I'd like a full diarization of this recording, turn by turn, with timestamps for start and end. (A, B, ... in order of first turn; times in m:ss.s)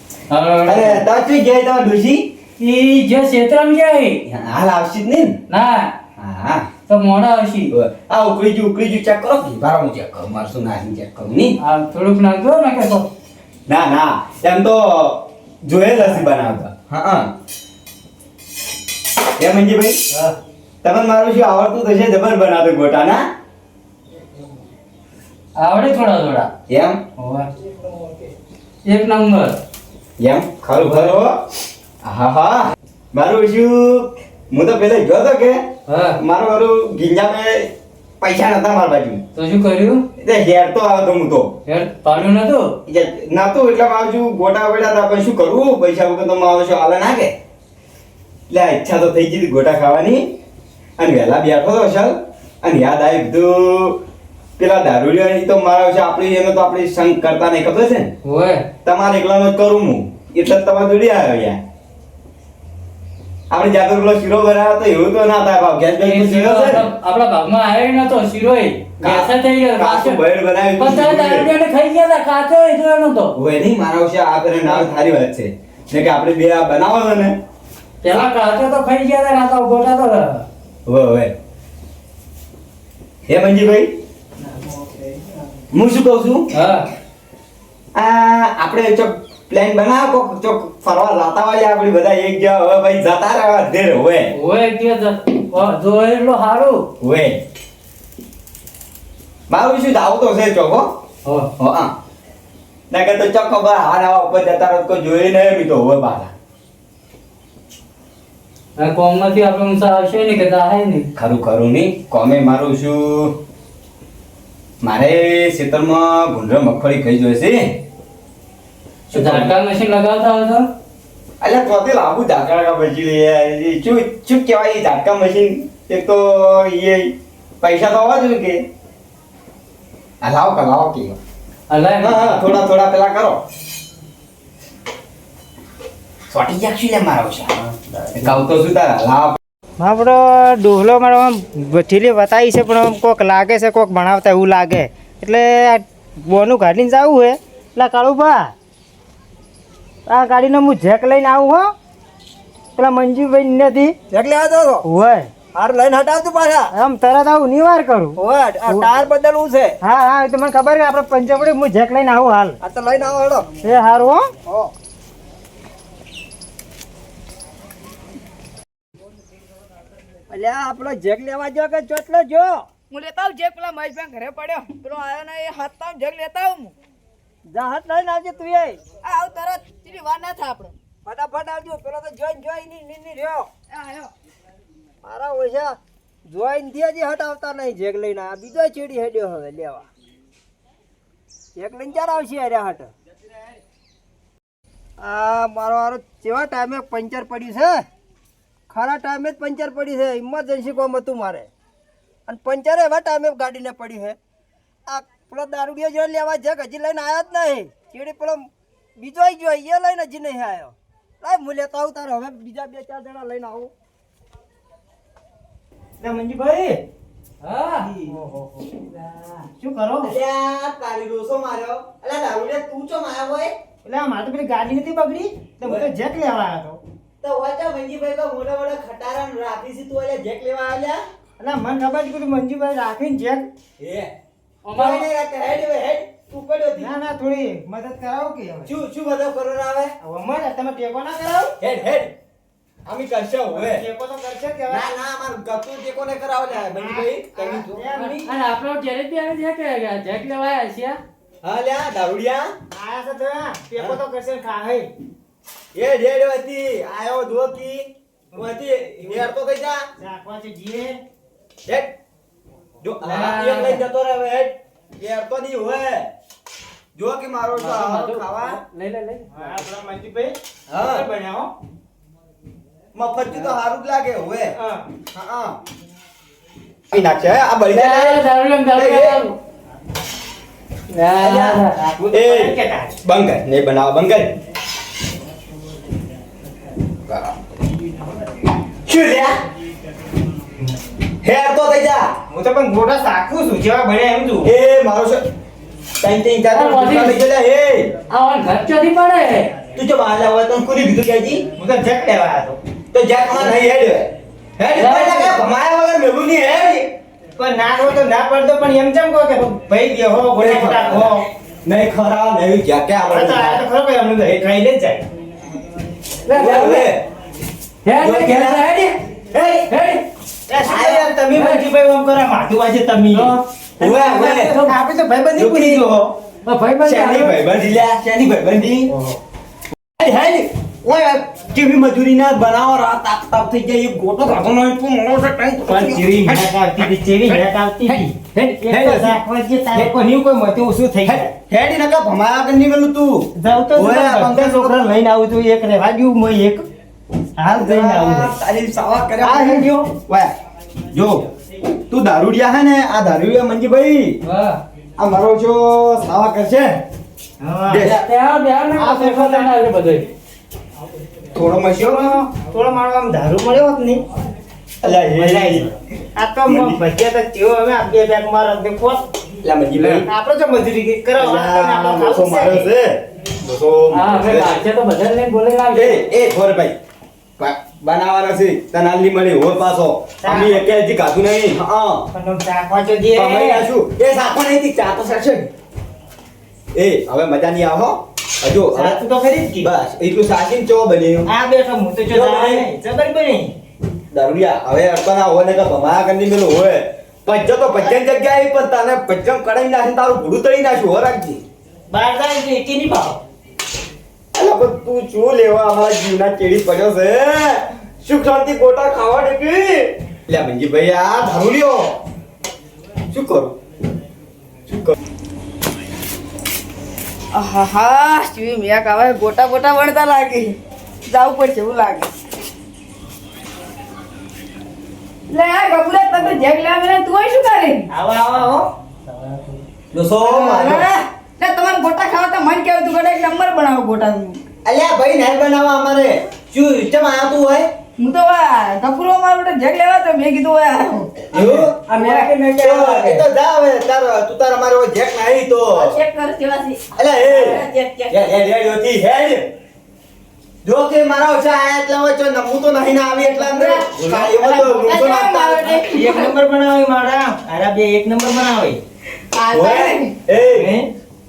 0:00.3-0:01.0 A
0:00.6-0:02.3 B
0:02.6-0:04.2 A
0:04.2-0:05.4 B
0:05.5-0:05.9 A
0:06.2-0:06.7 B
0:06.9-0:07.7 A
0:07.7-0:11.6 B
0:11.6-0:13.1 A
0:13.7-0:17.3 B
0:19.4-0:20.1 B
0:20.8-0:23.2 B
0:25.6-0:26.5 A
0:26.7-0:27.0 B
0:27.2-0:27.5 A
0:28.9-0:29.6 A
0:30.2-0:31.4 B
0:30.7-0:31.1 A
0:32.0-0:35.6 B
0:35.9-0:36.2 A
0:36.2-0:39.2 B
0:39.3-0:40.0 A
0:40.2-0:41.5 B
0:41.7-0:42.7 A
0:42.8-0:47.3 B
0:48.5-0:50.3 B
0:51.0-0:54.0 B
0:54.6-0:58.1 B
0:58.2-0:58.7 A
0:58.8-1:01.6 B
1:03.5-1:06.9 B
1:06.0-1:10.2 A
1:09.0-1:11.5 B
1:10.8-1:13.3 A
1:13.3-1:17.4 B
1:18.0-1:20.4 A
1:20.8-1:21.3 B
1:23.3-1:23.9 B
1:25.7-1:26.5 B
1:26.5-1:26.9 A
1:27.9-1:34.3 B
1:34.3-1:36.9 A
1:37.0-1:37.4 B
1:39.5-1:40.9 B
1:41.2-1:41.5 A
1:41.6-1:41.9 B
1:42.9-1:46.3 B
1:48.8-1:51.1 A
1:51.2-1:53.4 B
1:54.8-1:57.8 B
1:59.1-1:59.5 B
1:59.1-2:00.7 A
2:01.4-2:08.6 B
2:10.2-2:11.2 B
2:11.7-2:12.4 A
2:12.0-2:13.4 B
2:16.3-2:19.4 B
2:19.8-2:28.5 C
2:30.1-2:31.7 C
2:32.8-2:34.0 C
2:34.1-2:34.8 D
2:34.8-2:35.3 C
2:35.5-2:36.7 D
2:36.7-2:38.9 C
2:38.2-2:39.8 D
2:39.8-2:42.6 C
2:42.6-2:43.5 D
2:43.6-2:44.3 C
2:44.4-2:44.7 D
2:50.3-2:52.7 D
2:52.9-2:56.7 E
2:57.5-2:58.8 D
2:59.0-3:00.8 E
3:01.0-3:03.5 D
3:03.7-3:04.1 E
3:05.0-3:09.9 D
3:11.6-3:12.9 D
3:15.0-3:17.8 D
3:18.7-3:21.5 D
3:22.3-3:24.2 D
3:24.9-3:33.7 D
3:36.0-3:36.8 C
3:37.4-3:37.9 A
3:37.8-3:38.1 B
3:38.0-3:40.1 C
3:40.0-3:43.5 B
3:43.8-3:46.8 C
3:47.2-3:51.0 B
3:51.4-3:53.5 C
3:53.8-3:54.1 B
3:54.6-3:55.0 A
3:54.7-3:56.9 B
3:56.8-3:58.7 C
3:58.6-3:59.9 B
4:00.0-4:01.5 C
4:01.6-4:02.1 B
4:02.8-4:03.8 B
4:03.5-4:04.9 C
4:04.7-4:07.9 B
4:06.5-4:08.3 C
4:07.9-4:11.0 A
4:11.4-4:12.5 B
4:12.7-4:14.9 C
4:15.7-4:19.9 B
4:18.3-4:19.3 C
4:20.0-4:21.0 C
4:21.7-4:21.9 B
4:22.8-4:26.1 B
4:23.0-4:23.8 A
4:26.9-4:28.6 B
4:27.6-4:29.5 A
4:29.3-4:31.5 C
4:30.7-4:31.1 B
4:32.9-4:34.5 B
4:34.5-4:34.8 C
4:35.1-4:35.6 B
4:36.9-4:38.2 B
4:37.7-4:39.4 A
4:38.8-4:39.2 B
4:40.9-4:41.8 A
4:41.2-4:44.3 B
4:41.8-4:43.0 C
4:47.1-4:47.4 B
4:48.8-4:49.4 B
4:51.2-4:52.1 B
4:52.3-4:54.5 C
4:54.4-4:55.2 B
4:56.0-4:57.9 B
4:56.5-4:57.2 A
4:58.1-4:59.5 A
4:59.7-5:01.5 B
5:01.6-5:02.6 C
5:02.9-5:06.9 B
5:04.8-5:05.4 A
5:07.4-5:11.2 C
5:10.3-5:13.6 B
5:13.1-5:15.0 C
5:16.3-5:16.9 A
5:16.3-5:17.0 B
5:17.8-5:19.0 A
5:18.0-5:18.6 B
5:19.3-5:19.7 B
5:19.7-5:20.0 A
5:20.5-5:26.1 C
5:20.6-5:21.1 B
5:21.3-5:21.6 A
5:23.1-5:23.4 A
5:23.8-5:24.5 B
5:24.4-5:24.8 A
5:25.3-5:25.9 B
5:26.4-5:27.4 A
5:26.8-5:28.9 B
5:30.0-5:38.0 B
5:35.6-5:41.3 C
5:38.6-5:39.2 B
5:41.0-5:44.8 B
5:43.4-5:46.6 C
5:47.4-5:48.3 C
5:47.5-5:50.3 B
5:49.2-5:49.9 C
5:50.9-5:51.3 B
5:51.9-5:54.2 B
5:54.2-5:54.6 A
5:55.0-5:56.8 B
5:57.4-5:57.8 C
5:57.7-5:58.0 B
5:57.8-6:00.1 A
5:58.8-5:59.5 C
6:01.3-6:02.2 B
6:01.8-6:04.0 C
6:04.8-6:05.7 B
6:04.8-6:09.0 C
6:06.4-6:06.8 B
6:09.4-6:10.1 B
6:09.8-6:12.7 C
6:11.2-6:14.6 B
6:13.9-6:16.0 A
6:15.7-6:16.8 B
6:17.4-6:22.1 B
6:20.2-6:20.6 C
6:22.1-6:23.6 C
6:23.1-6:25.5 B
6:26.8-6:29.0 B
6:28.7-6:29.7 C
6:29.6-6:31.3 B
6:31.2-6:33.5 C
6:32.1-6:32.6 B
6:34.1-6:41.4 B
6:41.9-6:43.2 C
6:44.3-6:52.0 B
6:53.1-6:53.6 B
6:54.7-6:54.9 B
6:57.3-7:00.6 E
7:01.1-7:02.1 E
7:05.3-7:07.9 E
7:07.9-7:08.7 C
7:09.9-7:10.9 B
7:10.2-7:14.4 E
7:14.6-7:17.7 B
7:18.0-7:21.1 E
7:21.3-7:21.8 B
7:21.3-7:23.2 C
7:21.9-7:22.3 E
7:22.5-7:26.0 B
7:25.7-7:28.3 E
7:26.9-7:29.5 B
7:30.6-7:35.8 B
7:33.2-7:36.3 E
7:34.0-7:34.3 C
7:35.8-7:38.8 C
7:39.3-7:40.1 E
7:39.5-7:40.7 B
7:40.3-7:40.9 C